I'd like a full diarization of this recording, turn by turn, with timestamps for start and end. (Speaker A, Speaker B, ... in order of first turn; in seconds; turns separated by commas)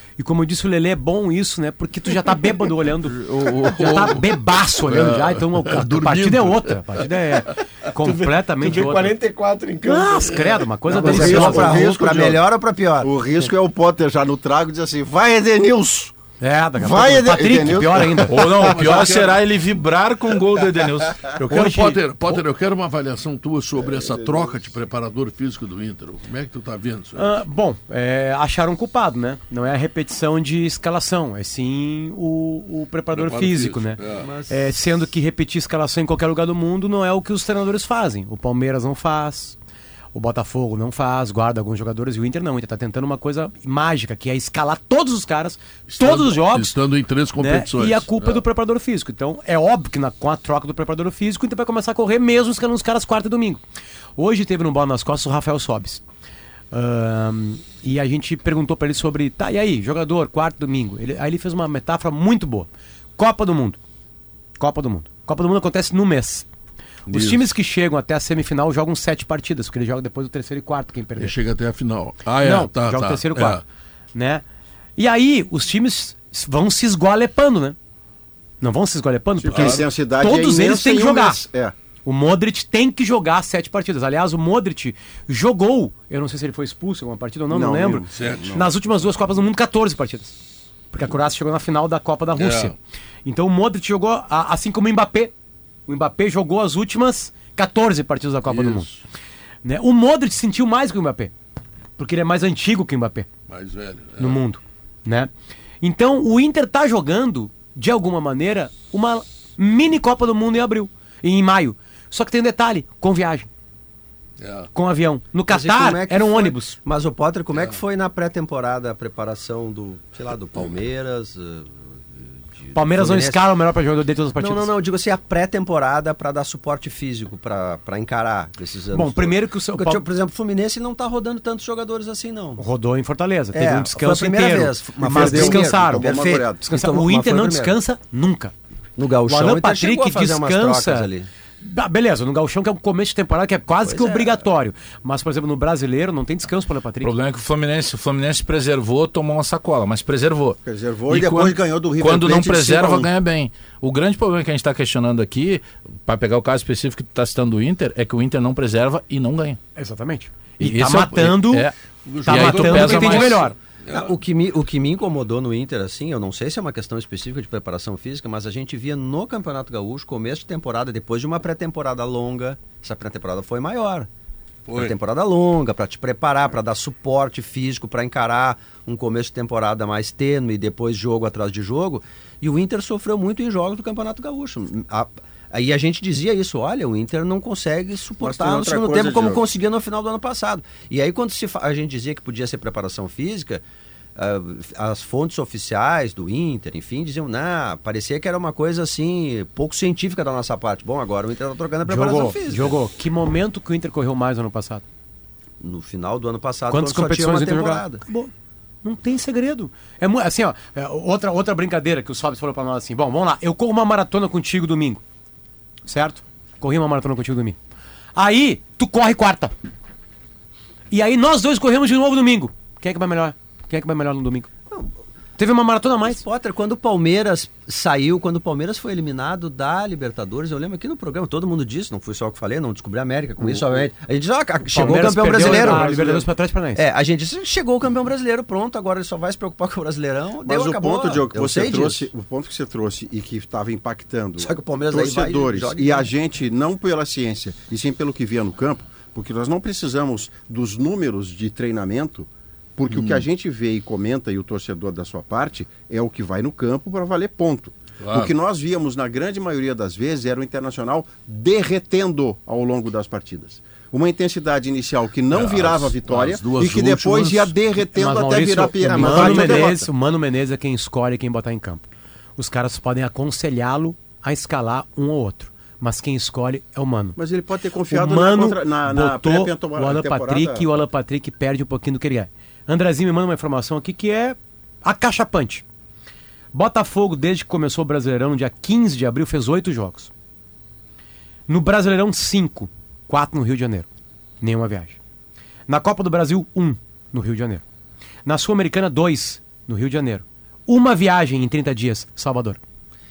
Speaker A: 0.2-9.2, Speaker B: 3.1-7.6, Speaker C: 8.0-11.7, Speaker A: 9.8-12.3, Speaker D: 10.9-13.1, Speaker E: 10.9-12.4, Speaker E: 13.0-16.2, Speaker A: 16.4-19.2, Speaker E: 16.8-18.5, Speaker F: 18.3-22.0, Speaker B: 18.5-19.4, Speaker B: 21.5-27.4, Speaker E: 23.8-24.6, Speaker A: 27.1-39.6, Speaker B: 33.1-34.3, Speaker D: 34.1-34.7, Speaker A: 40.1-46.8, Speaker B: 45.9-48.4, Speaker A: 47.4-53.6, Speaker A: 54.2-56.0, Speaker A: 56.7-63.8, Speaker A: 64.6-66.5, Speaker A: 67.1-71.4, Speaker B: 67.1-67.5, Speaker B: 71.2-73.6, Speaker A: 72.3-73.6, Speaker A: 74.1-74.4, Speaker A: 75.0-77.8, Speaker A: 78.6-81.4, Speaker E: 79.4-81.8, Speaker B: 79.5-79.9, Speaker A: 82.0-90.3, Speaker E: 87.5-88.7, Speaker B: 88.1-88.6, Speaker A: 90.9-95.3, Speaker B: 92.4-92.7, Speaker A: 95.9-98.9, Speaker B: 98.5-99.0, Speaker A: 99.6-101.3, Speaker A: 102.0-103.3, Speaker B: 103.5-104.4, Speaker A: 104.2-113.5, Speaker B: 114.4-114.7, Speaker A: 114.7-116.8, Speaker D: 115.5-123.5, Speaker B: 117.5-117.8, Speaker A: 122.7-124.7, Speaker D: 124.4-132.6, Speaker A: 128.9-130.1, Speaker A: 132.6-138.5, Speaker D: 133.5-137.8, Speaker E: 135.0-136.6, Speaker D: 139.0-141.3, Speaker A: 139.3-147.1, Speaker D: 143.8-144.4, Speaker F: 147.0-159.6, Speaker E: 150.7-153.1, Speaker A: 159.8-163.6, Speaker F: 160.6-161.7, Speaker B: 162.1-164.1, Speaker F: 162.3-163.4, Speaker D: 163.9-174.1, Speaker B: 174.7-175.0, Speaker D: 174.7-193.6, Speaker E: 188.2-189.4, Speaker D: 194.2-202.8, Speaker A: 201.8-204.8, Speaker D: 205.6-208.0, Speaker A: 206.7-208.3, Speaker A: 208.8-215.0, Speaker A: 215.9-217.6, Speaker A: 218.2-219.5, Speaker A: 220.9-224.5, Speaker A: 225.4-226.2, Speaker D: 226.0-236.2, Speaker A: 234.7-236.8, Speaker E: 235.4-236.2, Speaker D: 236.8-242.1, Speaker E: 240.4-269.9, Speaker D: 244.4-246.1, Speaker B: 252.9-253.2, Speaker B: 258.0-258.3, Speaker B: 265.3-267.6, Speaker A: 267.9-271.9, Speaker C: 268.8-269.8, Speaker A: 272.4-277.2, Speaker E: 277.2-280.7, Speaker A: 277.9-285.6, Speaker A: 286.5-290.1, Speaker A: 291.5-293.9, Speaker A: 294.4-295.0, Speaker A: 295.7-297.6, Speaker A: 298.3-302.6